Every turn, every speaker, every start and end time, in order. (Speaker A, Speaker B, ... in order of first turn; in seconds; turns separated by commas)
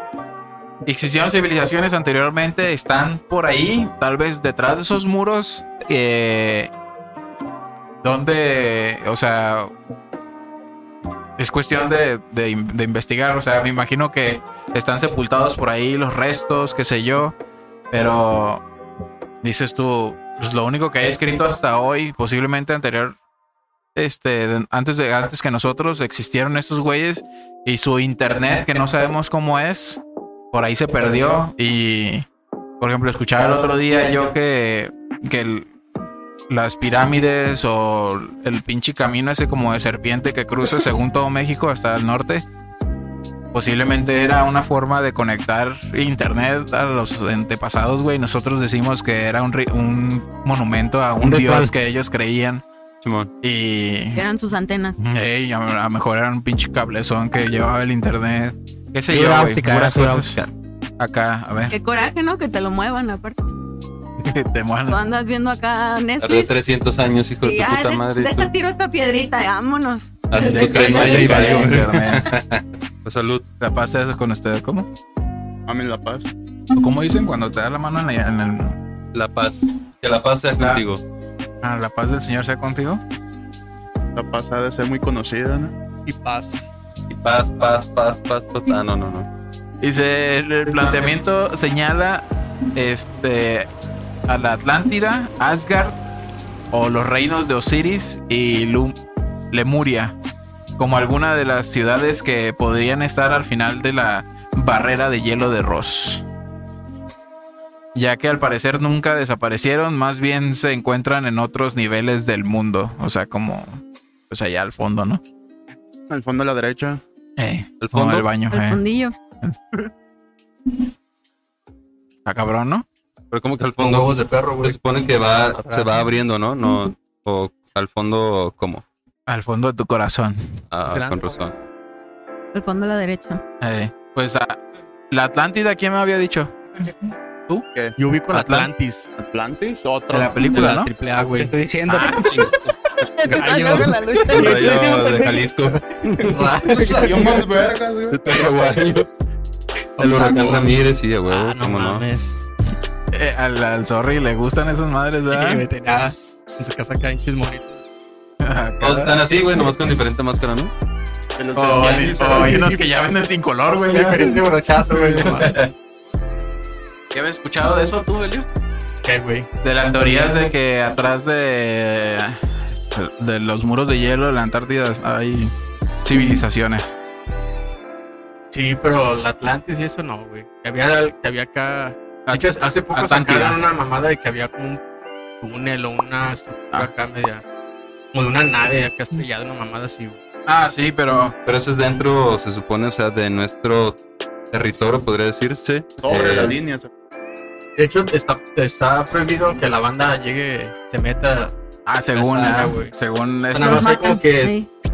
Speaker A: 0.9-6.7, Speaker A: 8.0-9.7, Speaker A: 11.4-17.4, Speaker A: 17.9-18.6, Speaker A: 19.4-23.2, Speaker A: 23.9-32.3, Speaker A: 32.8-35.7, Speaker A: 36.5-42.5, Speaker A: 43.5-52.6, Speaker B: 51.2-51.7, Speaker C: 53.0-53.3, Speaker A: 53.4-54.2, Speaker D: 54.1-55.0, Speaker A: 55.0-60.4, Speaker B: 59.1-60.5, Speaker A: 61.0-61.8, Speaker D: 61.7-63.4, Speaker A: 64.2-65.0, Speaker D: 64.9-66.5, Speaker C: 66.2-68.5, Speaker D: 67.4-71.8, Speaker C: 70.3-73.5, Speaker A: 70.3-72.3, Speaker A: 73.6-74.9, Speaker E: 75.7-76.3, Speaker A: 76.8-78.8, Speaker C: 79.1-81.0, Speaker A: 81.6-83.0, Speaker E: 84.2-85.7, Speaker F: 86.0-86.7, Speaker C: 87.1-89.3, Speaker A: 89.8-93.7, Speaker A: 94.3-96.0, Speaker A: 96.7-99.0, Speaker A: 99.5-100.2, Speaker A: 100.8-106.2, Speaker A: 108.0-115.2, Speaker E: 116.1-117.0, Speaker A: 117.4-118.8, Speaker C: 117.8-118.3, Speaker D: 118.5-119.2, Speaker A: 122.2-122.8, Speaker C: 123.3-128.8, Speaker F: 123.8-126.0, Speaker A: 129.3-130.6, Speaker C: 130.7-131.6, Speaker F: 130.9-131.6, Speaker D: 132.5-133.4, Speaker A: 133.6-136.6, Speaker F: 138.0-139.1, Speaker A: 138.3-138.7, Speaker E: 139.2-140.5, Speaker A: 140.1-140.9, Speaker F: 140.5-141.5, Speaker B: 141.4-142.3, Speaker A: 141.9-142.3, Speaker C: 142.2-142.6, Speaker D: 143.0-144.6, Speaker F: 143.2-147.5, Speaker C: 144.3-146.6, Speaker B: 144.6-144.9, Speaker E: 146.7-148.5, Speaker C: 148.1-149.1, Speaker F: 150.0-152.4, Speaker C: 150.0-152.1, Speaker A: 153.1-155.6, Speaker F: 155.3-157.8, Speaker A: 158.4-159.2, Speaker C: 158.8-160.7, Speaker E: 161.4-162.6, Speaker A: 161.6-164.3, Speaker F: 162.0-162.8, Speaker F: 163.9-165.6, Speaker C: 165.3-165.7, Speaker A: 167.1-168.5, Speaker F: 169.1-169.5, Speaker A: 169.6-175.5, Speaker A: 176.0-176.9, Speaker F: 178.5-184.8, Speaker A: 182.3-183.6, Speaker F: 185.4-187.4, Speaker F: 188.1-190.2, Speaker A: 190.5-191.3, Speaker C: 191.5-194.0, Speaker C: 194.5-196.6, Speaker E: 196.0-196.9, Speaker F: 197.8-201.5, Speaker A: 201.9-203.9, Speaker F: 202.2-202.9, Speaker F: 203.5-204.6, Speaker D: 203.6-204.7